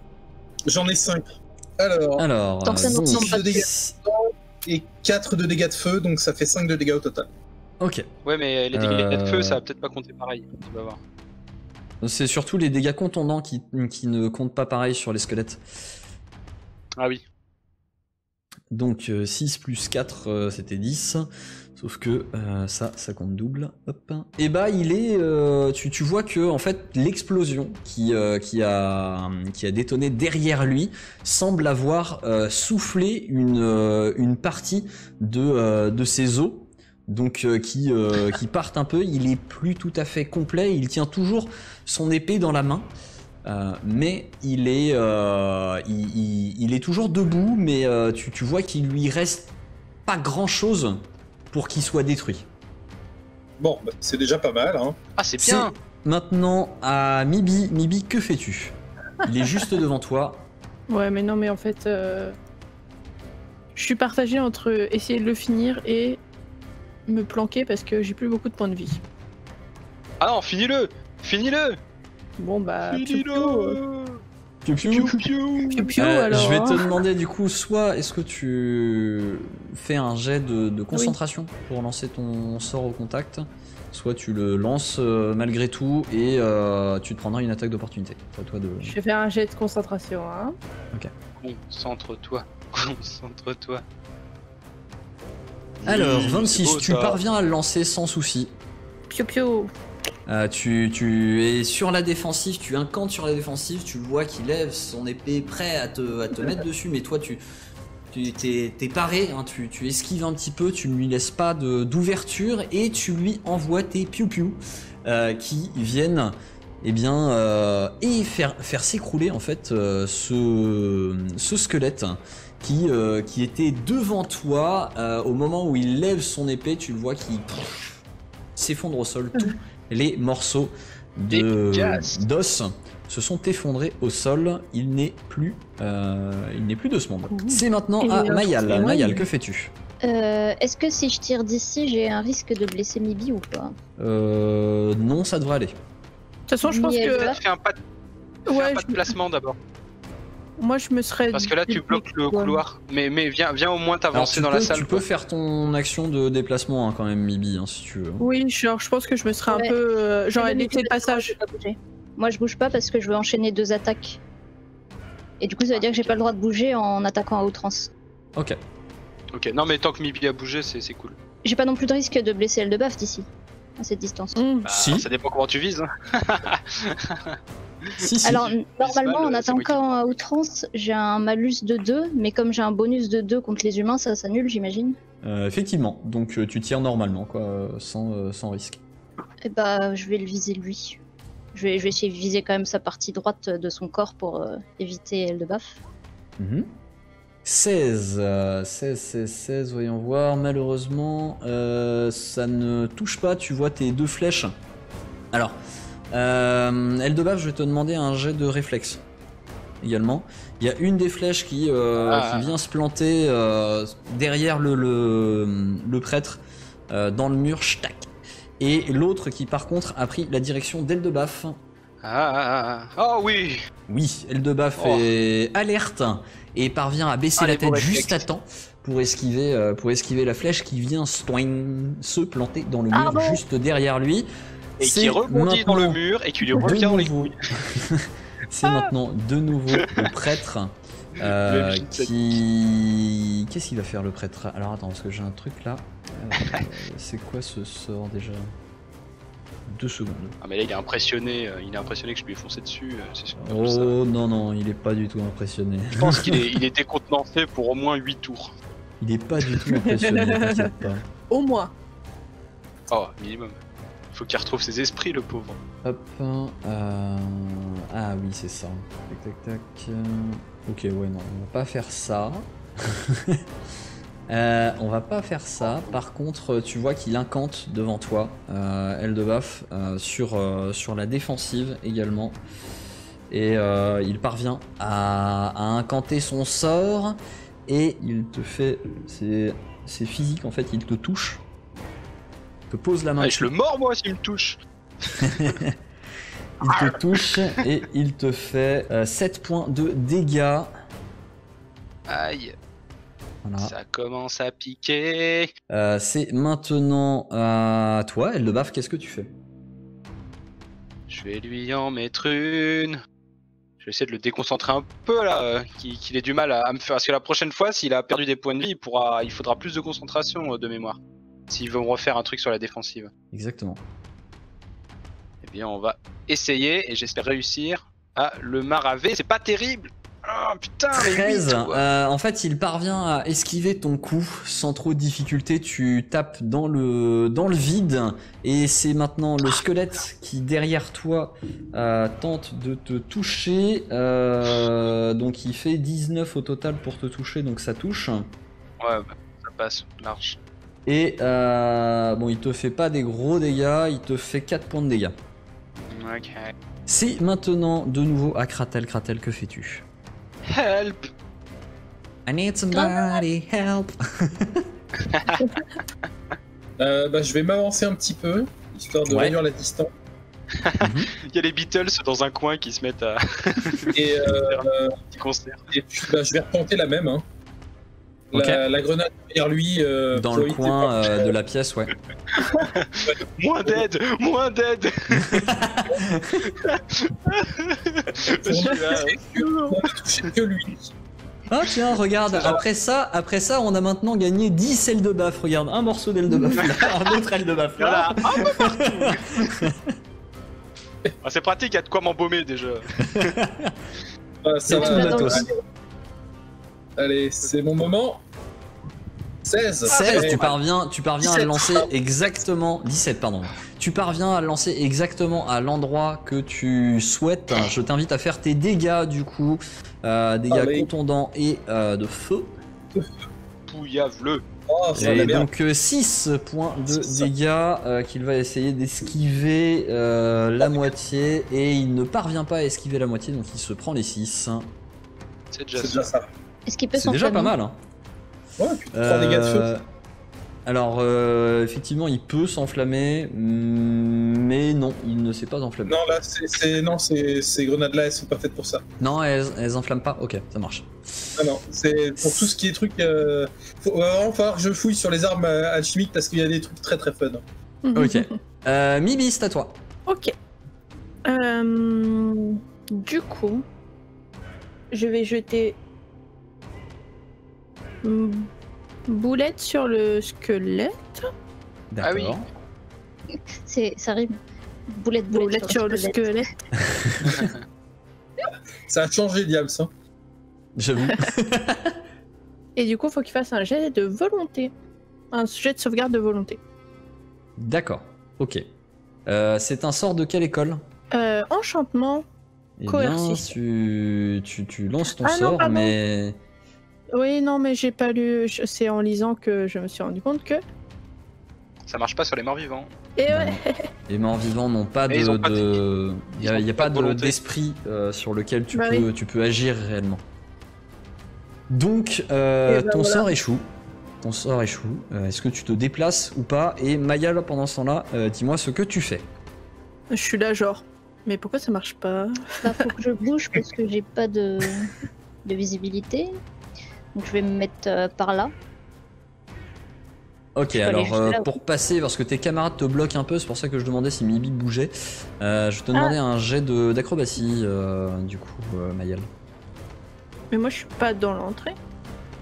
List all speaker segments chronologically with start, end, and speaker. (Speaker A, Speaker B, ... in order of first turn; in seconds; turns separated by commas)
Speaker A: 0.7-2.2, Speaker B: 2.2-4.0, Speaker C: 2.6-3.6, Speaker A: 2.9-7.3, Speaker B: 7.8-8.1, Speaker D: 8.2-11.0, Speaker B: 8.7-9.6, Speaker B: 12.0-15.6, Speaker D: 17.0-17.2, Speaker B: 18.7-42.9, Speaker B: 43.5-49.5, Speaker B: 50.0-52.5, Speaker A: 53.6-55.0, Speaker D: 55.2-55.7, Speaker B: 55.4-60.5, Speaker E: 60.9-62.3, Speaker E: 63.7-66.2, Speaker E: 67.1-69.0, Speaker D: 70.2-71.8, Speaker E: 72.4-73.8, Speaker D: 72.9-74.2, Speaker B: 74.6-75.2, Speaker D: 74.9-75.9, Speaker E: 75.7-77.0, Speaker B: 76.0-89.0, Speaker E: 88.8-90.5, Speaker D: 91.4-93.8, Speaker D: 95.8-97.2, Speaker B: 95.8-98.5, Speaker E: 99.1-99.7, Speaker B: 100.3-107.4, Speaker B: 108.1-128.0, Speaker B: 128.6-139.7, Speaker D: 131.3-132.2, Speaker E: 137.3-139.2, Speaker C: 140.0-143.7, Speaker B: 144.0-145.8, Speaker E: 146.5-147.3, Speaker C: 146.6-147.4, Speaker D: 147.1-147.8, Speaker D: 148.4-149.6, Speaker E: 148.5-149.1, Speaker E: 150.6-152.6, Speaker D: 151.3-155.0, Speaker B: 154.1-158.2, Speaker E: 158.2-161.3, Speaker C: 159.5-159.7, Speaker C: 160.3-164.2, Speaker C: 165.4-167.9, Speaker D: 165.7-166.3, Speaker D: 169.3-171.2, Speaker C: 171.4-173.3, Speaker C: 173.8-174.4, Speaker E: 174.3-174.7, Speaker B: 174.6-175.1, Speaker D: 174.7-177.9, Speaker B: 178.0-178.5, Speaker C: 178.2-185.0, Speaker D: 178.8-180.2, Speaker B: 185.2-188.8, Speaker C: 189.4-191.0, Speaker C: 191.5-195.8, Speaker B: 196.4-196.7, Speaker B: 197.4-204.5, Speaker B: 206.1-209.0, Speaker B: 209.8-218.1, Speaker D: 212.0-212.5, Speaker B: 218.6-221.6, Speaker D: 222.0-223.6, Speaker B: 223.9-234.3, Speaker D: 224.8-225.0, Speaker D: 227.4-228.2, Speaker C: 232.9-233.4, Speaker D: 234.8-237.3, Speaker B: 234.8-236.0, Speaker B: 236.5-248.5, Speaker D: 238.6-238.9, Speaker D: 241.2-242.4, Speaker B: 249.7-250.3, Speaker D: 250.4-253.9, Speaker B: 253.4-256.4, Speaker D: 256.0-258.5, Speaker B: 259.0-261.1, Speaker E: 259.6-260.8, Speaker E: 261.3-261.7, Speaker D: 262.9-263.6, Speaker D: 264.1-265.6, Speaker B: 265.8-273.4, Speaker B: 274.3-282.4, Speaker D: 275.6-276.0, Speaker B: 283.3-291.4, Speaker B: 292.7-293.5, Speaker D: 293.2-294.6, Speaker D: 295.1-295.5, Speaker B: 295.2-295.7, Speaker B: 296.6-300.7, Speaker D: 296.7-297.2, Speaker D: 302.1-302.6, Speaker B: 303.4-303.7, Speaker D: 303.6-305.5, Speaker B: 305.7-309.3, Speaker D: 311.1-313.0, Speaker D: 313.8-321.0, Speaker D: 321.5-323.1, Speaker B: 323.3-323.8, Speaker D: 325.4-331.8, Speaker B: 330.9-348.3, Speaker D: 348.8-350.4, Speaker B: 350.9-355.1, Speaker D: 355.9-356.5, Speaker B: 356.9-359.8, Speaker D: 360.5-361.1, Speaker B: 362.2-364.6, Speaker D: 365.0-365.4, Speaker A: 366.8-369.9, Speaker B: 369.1-369.4, Speaker D: 370.6-375.6, Speaker B: 370.8-371.1, Speaker A: 373.9-374.9, Speaker A: 375.7-377.2, Speaker A: 378.3-381.3, Speaker B: 378.3-378.6, Speaker B: 380.1-381.9, Speaker D: 382.3-385.5, Speaker A: 383.1-383.9, Speaker B: 385.2-386.5, Speaker D: 386.4-390.2, Speaker A: 388.4-390.9, Speaker B: 391.5-399.9, Speaker A: 392.3-392.6, Speaker D: 396.6-396.9, Speaker D: 397.8-399.4, Speaker D: 401.2-403.3, Speaker B: 403.0-403.8, Speaker A: 404.4-405.5, Speaker B: 404.7-405.5, Speaker C: 404.7-405.6, Speaker A: 407.0-408.2, Speaker A: 409.4-410.4, Speaker D: 409.9-410.6, Speaker B: 409.9-422.6, Speaker A: 411.2-411.9, Speaker A: 420.5-420.9, Speaker D: 423.7-424.4, Speaker A: 424.7-425.5, Speaker B: 425.0-434.7, Speaker D: 425.0-425.3, Speaker A: 426.9-427.3, Speaker A: 430.6-430.9, Speaker D: 435.5-436.1, Speaker A: 435.8-436.3, Speaker C: 436.6-437.5, Speaker B: 436.9-437.8, Speaker A: 438.6-439.7, Speaker B: 438.9-439.8, Speaker B: 440.6-446.0, Speaker A: 445.9-448.8, Speaker B: 449.0-450.9, Speaker A: 451.4-457.4, Speaker B: 452.2-452.5, Speaker E: 457.8-458.3, Speaker B: 457.9-459.8, Speaker E: 460.1-460.3, Speaker E: 461.2-463.6, Speaker E: 464.9-465.8, Speaker E: 468.0-468.5, Speaker E: 469.1-471.3, Speaker B: 471.9-472.4, Speaker D: 472.0-472.3, Speaker C: 473.7-474.3, Speaker C: 474.9-476.4, Speaker E: 475.3-476.5, Speaker B: 476.8-477.5, Speaker A: 478.9-479.9, Speaker B: 480.8-481.9, Speaker E: 482.8-484.7, Speaker E: 485.3-486.6, Speaker B: 487.6-488.6, Speaker B: 489.3-490.8, Speaker E: 491.1-492.2, Speaker B: 492.8-496.4, Speaker E: 492.9-493.5, Speaker E: 495.2-495.9, Speaker E: 497.1-500.6, Speaker D: 501.9-502.9, Speaker E: 503.2-503.7, Speaker B: 503.3-510.2, Speaker D: 505.1-505.8, Speaker D: 506.4-507.3, Speaker E: 508.7-509.1, Speaker B: 511.7-513.7, Speaker E: 512.6-513.3, Speaker B: 514.2-519.3, Speaker E: 520.1-522.9, Speaker C: 522.6-524.9, Speaker C: 525.4-526.3, Speaker C: 527.1-528.5, Speaker B: 530.5-539.3, Speaker C: 530.7-531.5, Speaker E: 540.5-541.8